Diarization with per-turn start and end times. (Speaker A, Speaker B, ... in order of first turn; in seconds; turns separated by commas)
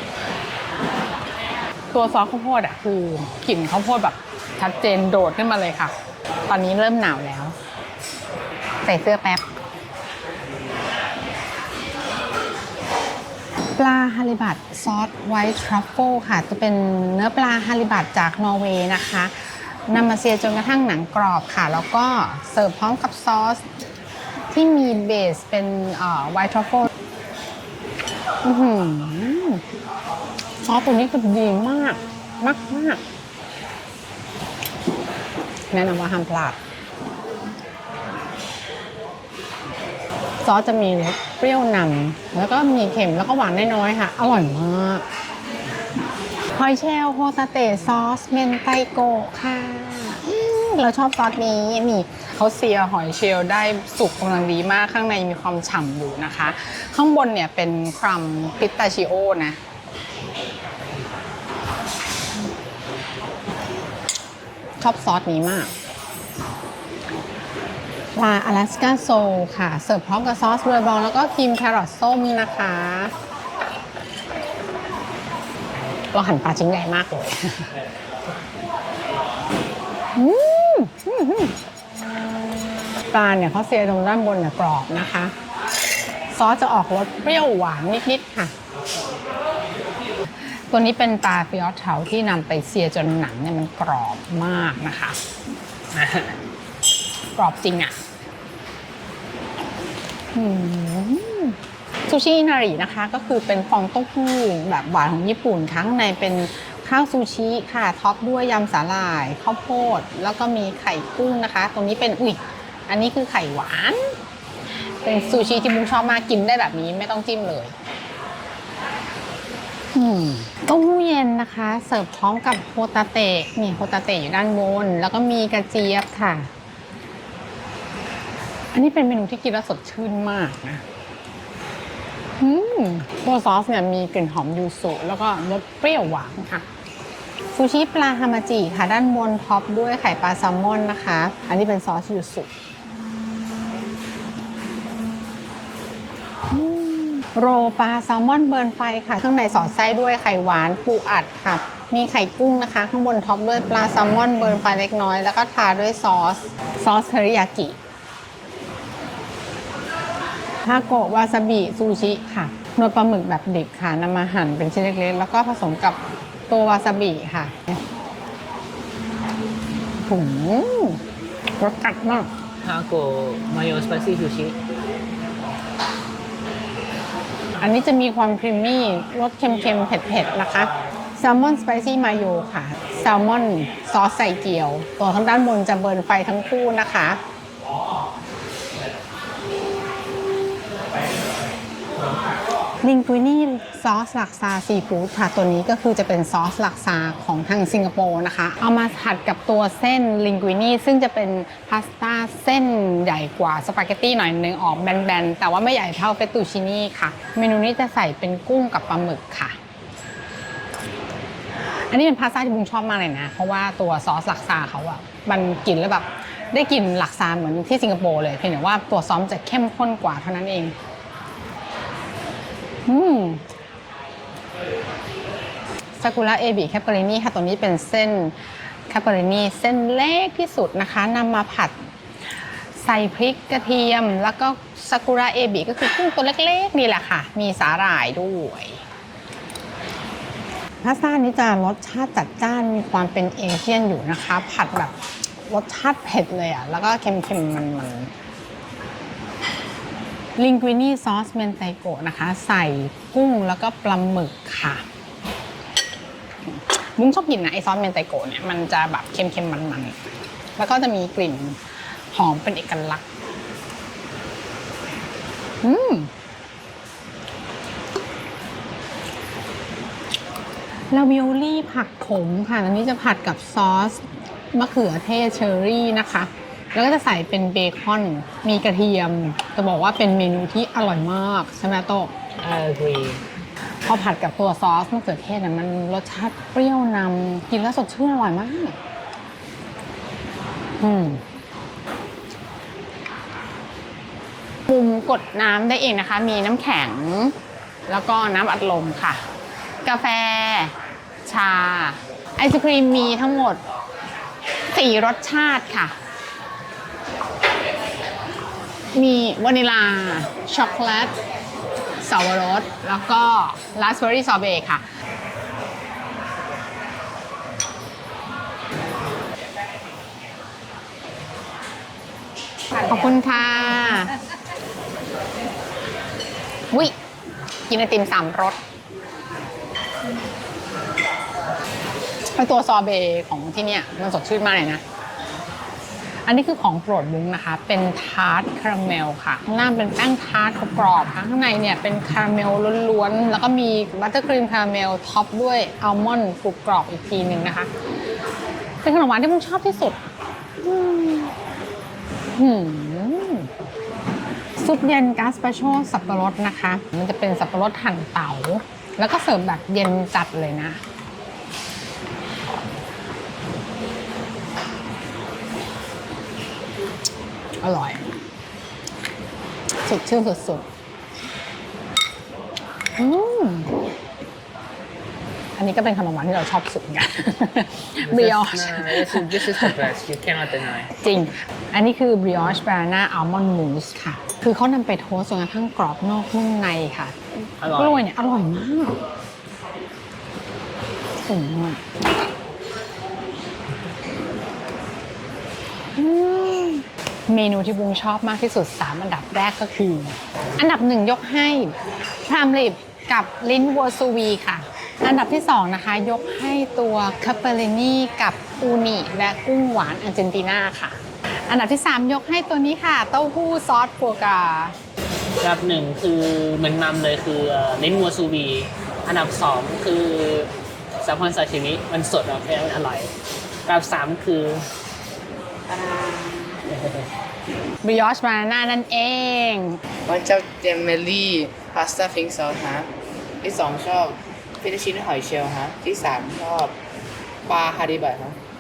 Speaker A: 1.9-5.9, Speaker A: 6.5-7.5, Speaker A: 8.8-9.4, Speaker A: 13.8-23.7, Speaker A: 24.5-26.9, Speaker A: 28.4-29.6, Speaker A: 30.6-33.0, Speaker A: 35.7-36.6, Speaker A: 40.4-45.0, Speaker A: 46.5-59.6, Speaker A: 64.8-65.7, Speaker A: 68.2-73.1, Speaker A: 76.1-77.7, Speaker A: 80.2-81.5, Speaker A: 83.1-85.3, Speaker A: 86.3-88.5, Speaker A: 90.7-95.2, Speaker B: 95.9-96.4, Speaker A: 97.4-98.0, Speaker A: 100.3-101.6, Speaker A: 102.1-114.1, Speaker A: 115.0-117.7, Speaker A: 120.0-126.5, Speaker A: 128.7-130.8, Speaker A: 132.4-136.7, Speaker A: 137.5-142.5, Speaker A: 146.5-157.8, Speaker A: 160.6-166.0, Speaker A: 166.5-167.8, Speaker A: 170.1-171.0, Speaker A: 171.6-172.3, Speaker B: 172.6-174.6, Speaker A: 177.6-187.2, Speaker A: 192.8-209.6, Speaker A: 211.8-220.8, Speaker A: 222.9-223.4, Speaker A: 226.0-228.4, Speaker A: 228.9-231.8, Speaker A: 232.8-238.8, Speaker A: 240.8-245.0, Speaker A: 245.5-248.1, Speaker A: 250.4-254.8, Speaker A: 256.5-260.0, Speaker A: 260.6-263.0, Speaker A: 265.6-266.1, Speaker A: 270.9-282.1, Speaker B: 282.4-283.2, Speaker A: 283.9-288.8, Speaker A: 290.8-291.2, Speaker A: 294.7-297.4, Speaker A: 297.9-299.2, Speaker A: 299.8-300.7, Speaker A: 301.2-303.6, Speaker A: 304.7-305.9, Speaker A: 308.9-311.1, Speaker A: 312.0-314.9, Speaker A: 322.7-324.2, Speaker A: 327.7-328.6, Speaker A: 332.3-334.8, Speaker A: 336.2-347.7, Speaker A: 348.8-350.0, Speaker A: 350.6-351.3, Speaker A: 352.4-353.5, Speaker A: 354.6-360.8, Speaker A: 367.6-368.1, Speaker A: 369.9-370.6, Speaker A: 373.0-373.7, Speaker A: 375.6-379.9, Speaker B: 378.0-380.9, Speaker A: 381.0-389.0, Speaker B: 387.6-388.0, Speaker A: 391.3-391.8, Speaker A: 396.0-414.8, Speaker B: 415.4-420.5, Speaker B: 421.0-423.1, Speaker B: 423.7-424.6, Speaker C: 425.7-426.6, Speaker B: 426.7-427.1, Speaker A: 427.8-429.8, Speaker C: 430.1-432.9, Speaker C: 433.4-436.8, Speaker C: 437.5-438.4